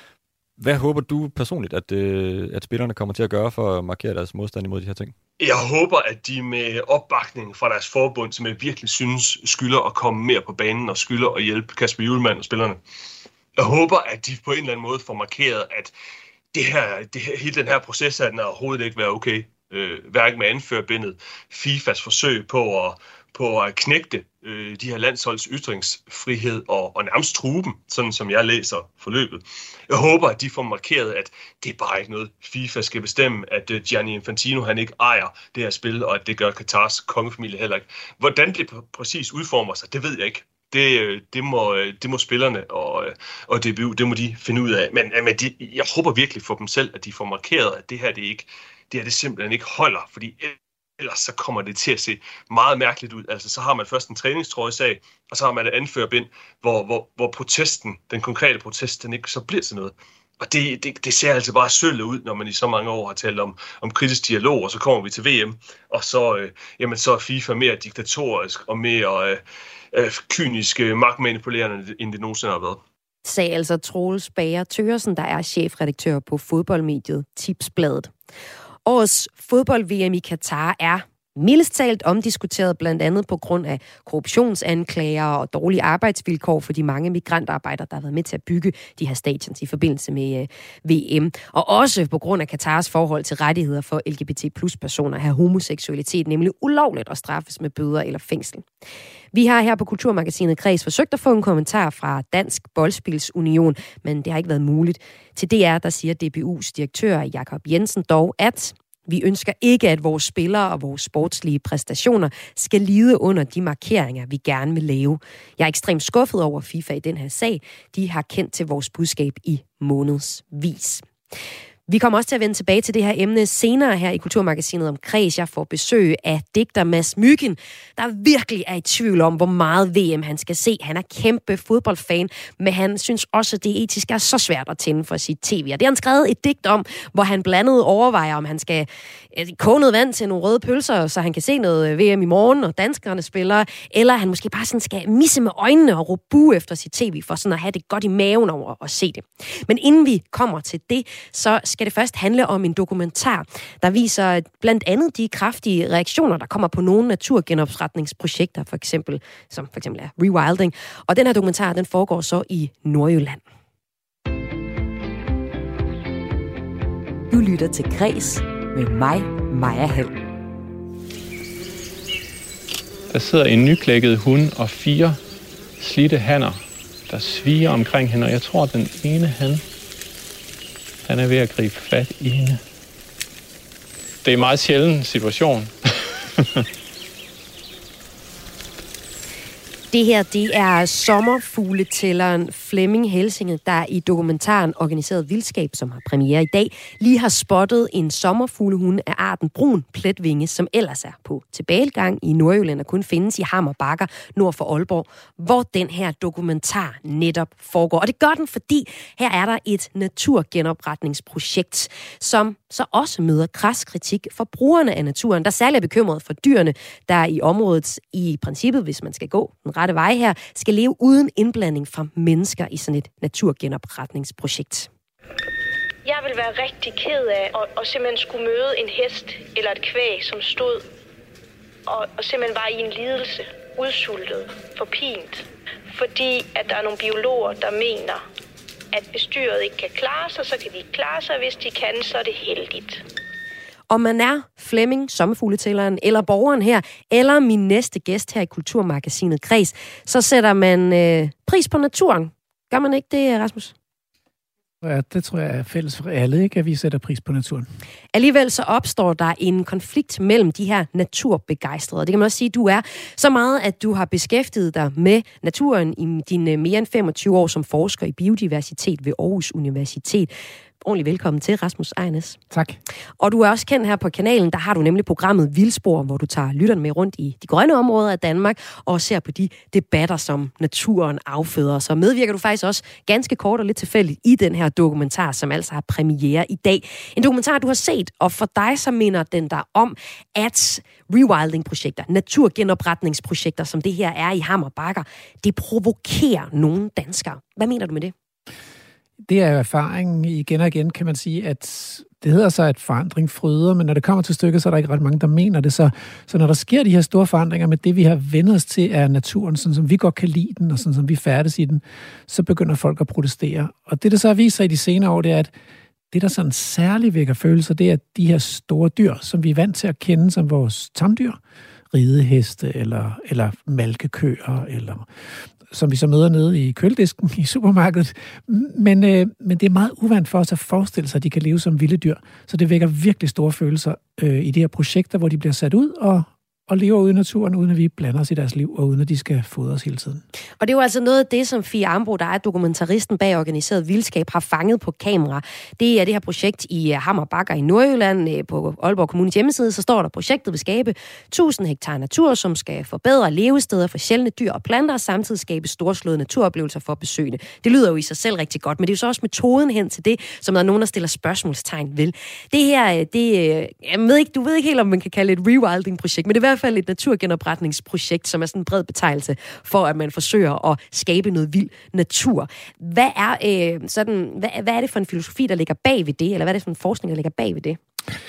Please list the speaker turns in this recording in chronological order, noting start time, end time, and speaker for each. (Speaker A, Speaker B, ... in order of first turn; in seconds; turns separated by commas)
Speaker A: 0.6-5.1, Speaker B: 5.4-12.8, Speaker B: 13.6-15.9, Speaker B: 16.5-72.8, Speaker C: 73.2-78.1, Speaker C: 78.9-98.7, Speaker C: 99.3-121.0, Speaker C: 121.9-163.4, Speaker D: 167.3-170.1, Speaker E: 173.1-175.2, Speaker E: 175.8-179.6, Speaker E: 181.1-182.6, Speaker E: 184.2-185.7, Speaker C: 189.9-224.9, Speaker F: 226.1-230.8, Speaker F: 231.9-238.2, Speaker F: 238.9-243.0, Speaker C: 243.9-253.7, Speaker G: 254.8-257.7, Speaker C: 258.1-270.3, Speaker C: 270.8-272.4, Speaker G: 272.5-272.8, Speaker C: 273.2-298.1, Speaker G: 299.3-315.5, Speaker G: 316.1-321.4, Speaker G: 321.9-325.1, Speaker G: 325.7-340.2, Speaker C: 340.6-377.8